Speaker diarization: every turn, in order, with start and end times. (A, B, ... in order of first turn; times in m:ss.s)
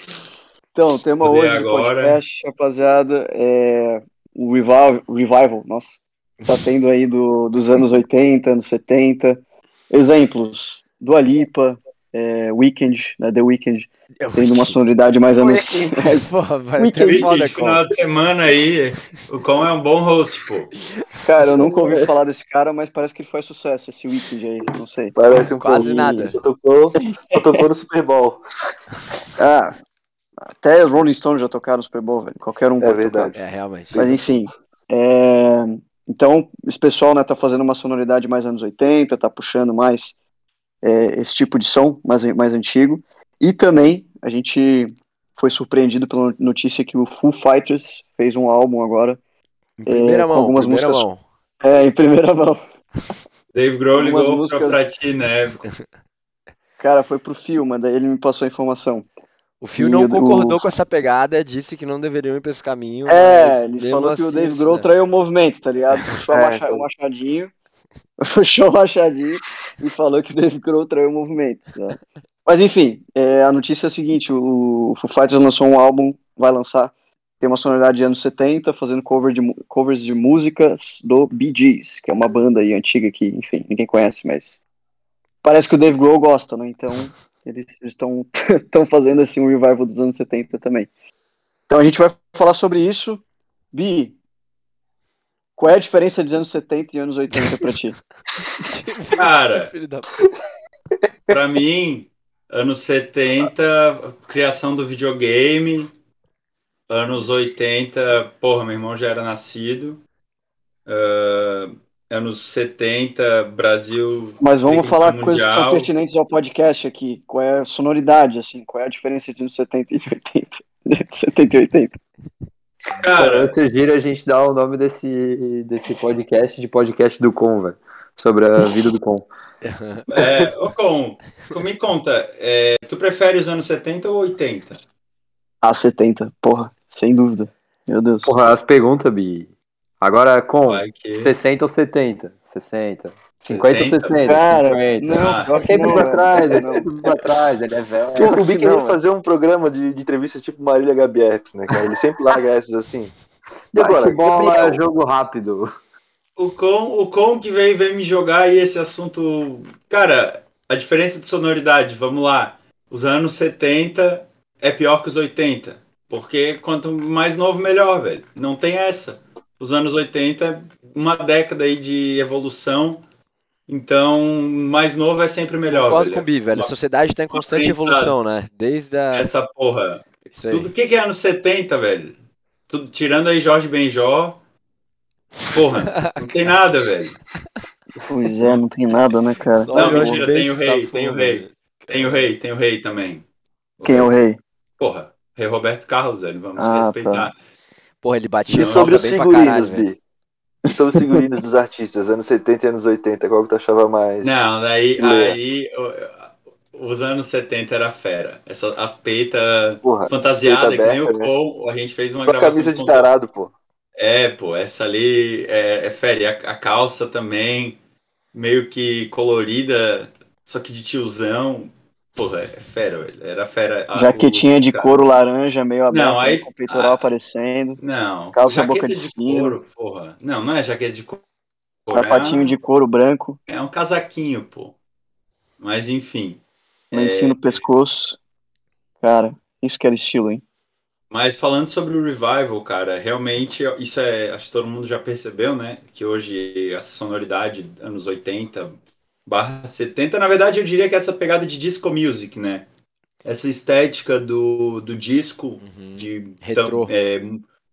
0:00.7-0:16.2 A
0:01.2-0:02.2 B
0:14.2-0:14.8 C
0:15.3-0:15.9 D
0:16.0-0:17.8 C
0:16.8-0:17.4 A
0:17.0-0:20.7 B
0:21.2-0:25.2 A
0:21.6-0:22.0 D
0:25.1-0:28.4 D
0:25.3-0:26.4 C
0:29.4-0:29.7 A
0:30.6-0:33.4 A
0:32.8-0:33.4 D
0:33.3-0:34.0 C
0:33.9-0:34.2 D
0:33.9-0:40.1 A
0:40.8-0:49.2 A
0:49.8-0:51.2 C
0:49.9-0:51.1 A
0:51.6-0:52.6 A
0:53.5-0:55.6 B
0:53.9-0:54.8 A
0:56.8-0:59.1 A
0:59.6-1:04.9 C
0:59.8-1:00.6 A
1:03.0-1:07.5 A
1:06.3-1:06.8 D
1:08.2-1:24.6 A
1:25.4-1:30.9 A
1:31.7-1:33.2 A
1:33.7-1:34.2 A
1:35.6-1:37.9 A
1:38.6-1:40.2 C
1:39.1-1:39.7 B
1:41.3-1:45.9 B
1:46.9-1:50.0 B
1:50.8-1:55.9 B
1:54.4-2:02.0 A
2:03.0-2:03.5 B
2:03.1-2:09.3 E
2:09.6-2:10.4 C
2:10.1-2:14.8 B
2:15.6-2:18.4 A
2:18.2-2:28.3 E
2:20.6-2:21.3 B
2:23.5-2:24.2 B
2:24.2-2:26.8 A
2:25.1-2:26.1 B
2:28.2-2:33.1 D
2:28.2-2:29.0 A
2:33.7-2:35.7 E
2:33.7-2:34.8 D
2:36.4-2:53.0 B
2:53.7-2:56.7 B
2:55.7-2:59.3 C
2:57.3-2:58.1 B
2:59.1-3:02.2 B
3:00.4-3:00.7 C
3:02.7-3:04.4 B
3:05.5-3:07.2 B
3:05.8-3:06.5 C
3:08.1-3:10.2 A
3:09.5-3:12.3 C
3:09.7-3:13.3 B
3:13.8-3:14.1 B
3:13.8-3:14.4 A
3:14.8-3:17.4 B
3:16.6-3:17.3 A
3:18.0-3:19.9 C
3:18.4-3:18.9 B
3:18.5-3:20.0 D
3:20.7-3:24.4 D
3:24.2-3:33.1 B
3:25.0-3:25.4 D
3:29.8-3:31.3 D
3:32.2-3:33.5 D
3:34.0-3:37.8 B
3:38.3-3:45.0 B
3:43.9-3:47.8 A
3:45.9-3:47.1 B
3:47.8-3:51.2 B
3:48.3-3:49.6 A
3:51.8-3:52.6 B
3:51.9-3:53.4 A
3:53.5-3:54.8 B
3:55.6-3:57.6 B
3:56.9-3:58.2 A
3:59.0-4:00.4 A
4:01.1-4:12.7 B
4:13.2-4:17.4 B
4:15.6-4:16.9 C